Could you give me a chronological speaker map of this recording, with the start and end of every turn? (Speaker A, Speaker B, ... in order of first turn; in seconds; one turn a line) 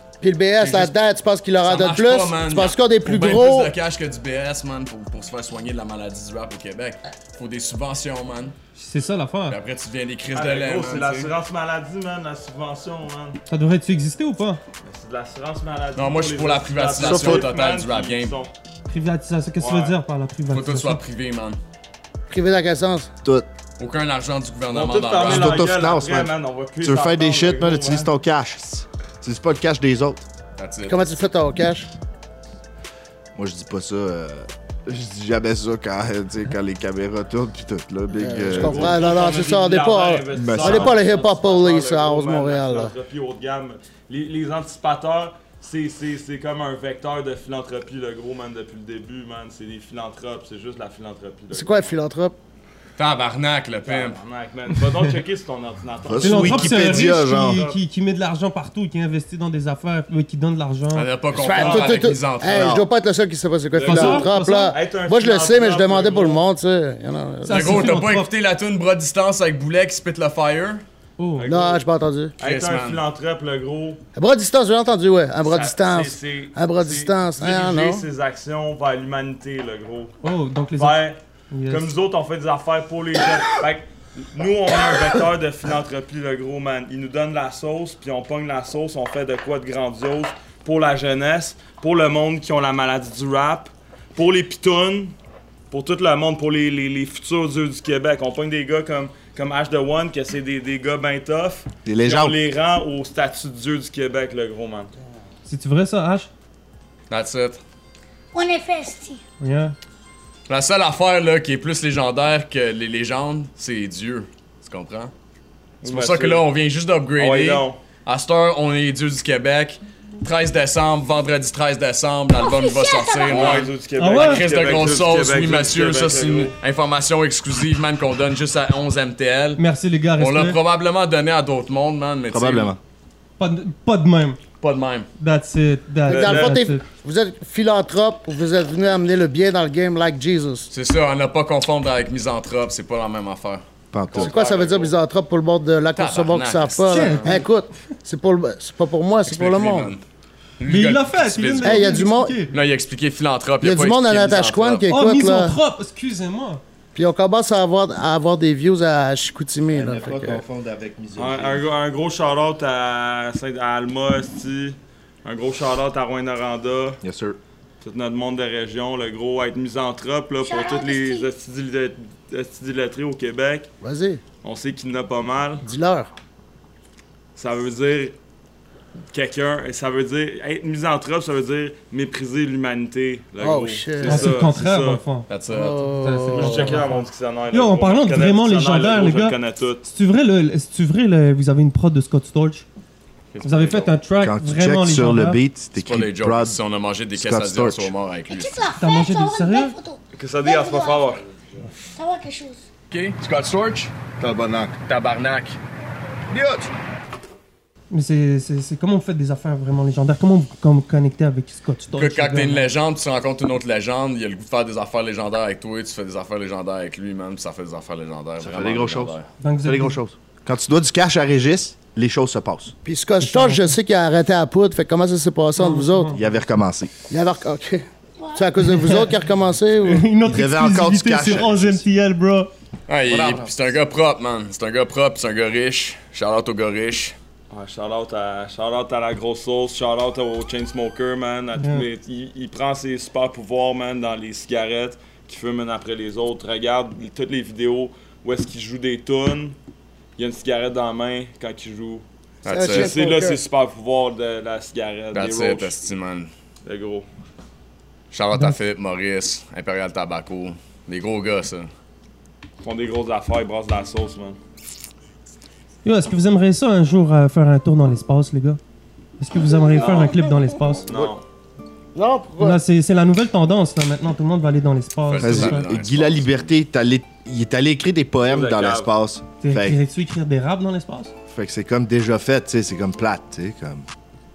Speaker A: 0.2-3.7
Speaker B: 0.6-0.9
Speaker B: 1.6-8.5
Speaker C: 8.8-9.6
Speaker B: 9.5-11.3
Speaker D: 10.3-13.4
Speaker C: 13.5-14.6
Speaker D: 14.8-18.5
Speaker B: 15.9-18.3
Speaker C: 18.9-21.0
Speaker D: 19.6-20.0
Speaker B: 20.5-21.6
Speaker A: 22.3-23.1
Speaker B: 23.8-25.7
Speaker D: 24.7-28.1
Speaker E: 25.2-30.2
Speaker B: 30.6-31.2
Speaker A: 30.9-31.9
Speaker E: 33.3-39.0
Speaker A: 38.1-42.9
Speaker D: 38.5-52.0
Speaker E: 40.3-41.0
Speaker A: 51.5-52.4
Speaker B: 53.0-54.2
Speaker D: 53.8-57.8
Speaker E: 56.0-57.6
Speaker C: 56.2-61.1
Speaker B: 60.9-62.7
Speaker A: 61.3-68.0
Speaker D: 61.5-62.0
Speaker E: 62.4-62.9
Speaker D: 63.7-66.4
Speaker C: 63.8-64.7
Speaker C: 67.5-68.3
Speaker B: 67.5-70.8
Speaker C: 71.2-71.5
Speaker D: 71.4-71.8
Speaker A: 71.5-72.3
Speaker D: 72.4-74.0
Speaker B: 72.4-73.0
Speaker A: 74.2-78.0
Speaker D: 75.4-80.1
Speaker C: 80.2-81.9
Speaker D: 80.7-95.1
Speaker D: 95.7-104.9
Speaker E: 101.8-102.3
Speaker C: 105.5-106.3
Speaker B: 107.1-107.6
Speaker F: 108.3-109.2
Speaker C: 109.4-109.7
Speaker B: 110.5-115.1
Speaker D: 115.8-116.5
Speaker B: 115.8-129.6
Speaker D: 117.2-117.8
Speaker F: 122.3-123.7
Speaker D: 123.2-126.5
Speaker C: 124.0-124.5
Speaker C: 129.6-130.6
Speaker B: 130.2-132.7
Speaker E: 132.3-132.8
Speaker C: 133.4-134.4
Speaker B: 134.6-135.1
Speaker C: 135.2-136.8
Speaker D: 136.1-136.5
Speaker A: 136.1-140.7
Speaker B: 140.7-143.6
Speaker E: 143.9-144.3
Speaker D: 144.1-144.9
Speaker A: 144.2-149.9
Speaker B: 145.9-147.4
Speaker C: 146.9-147.3
Speaker B: 149.2-150.0
Speaker B: 150.6-152.0
Speaker C: 150.7-152.5
Speaker A: 151.6-152.4
Speaker B: 152.5-154.8
Speaker A: 153.6-155.6
Speaker C: 154.9-156.6
Speaker A: 156.9-160.4
Speaker E: 159.7-161.6
Speaker D: 161.2-167.0
Speaker E: 167.0-167.4
Speaker D: 167.8-173.7
Speaker F: 170.4-171.3
Speaker A: 173.8-174.2
Speaker D: 174.4-175.6
Speaker A: 175.6-176.1
Speaker D: 177.3-178.2
Speaker D: 179.1-185.0
Speaker A: 183.4-184.4
Speaker C: 184.0-185.3
Speaker B: 185.3-185.8
Speaker A: 185.5-186.8
Speaker C: 186.0-189.4
Speaker D: 186.3-189.9
Speaker C: 189.9-192.7
Speaker B: 193.3-193.9
Speaker C: 193.4-195.4
Speaker E: 194.2-196.6
Speaker B: 195.8-198.5
Speaker E: 197.1-197.9
Speaker F: 198.3-201.2
Speaker C: 198.8-199.7
Speaker D: 200.1-201.6
Speaker F: 201.9-202.6
Speaker B: 202.9-205.6
Speaker E: 204.2-204.7
Speaker E: 206.3-206.7
Speaker C: 207.9-212.7
Speaker B: 211.9-219.3
Speaker E: 218.4-222.7
Speaker C: 219.4-219.9
Speaker A: 222.8-226.2
Speaker C: 223.2-223.6
Speaker C: 225.6-226.2
Speaker E: 226.1-226.9
Speaker A: 227.1-230.1
Speaker F: 228.2-228.5
Speaker C: 228.6-229.1
Speaker C: 229.8-232.5
Speaker E: 230.2-231.8
Speaker B: 232.9-237.1
Speaker E: 233.1-233.6
Speaker D: 237.5-249.6
Speaker C: 241.6-241.9
Speaker D: 250.2-252.0
Speaker B: 252.4-252.9
Speaker A: 252.5-253.4
Speaker D: 252.6-255.7
Speaker B: 255.1-256.3
Speaker D: 256.6-257.1
Speaker B: 258.1-261.7
Speaker D: 262.6-264.4
Speaker C: 265.8-268.6
Speaker C: 269.2-271.1
Speaker D: 269.8-270.2
Speaker D: 270.9-271.2
Speaker A: 271.9-272.6
Speaker C: 272.4-275.6
Speaker B: 275.1-276.4
Speaker E: 275.2-279.8
Speaker D: 278.2-278.9
Speaker C: 279.4-281.1
Speaker E: 281.3-283.9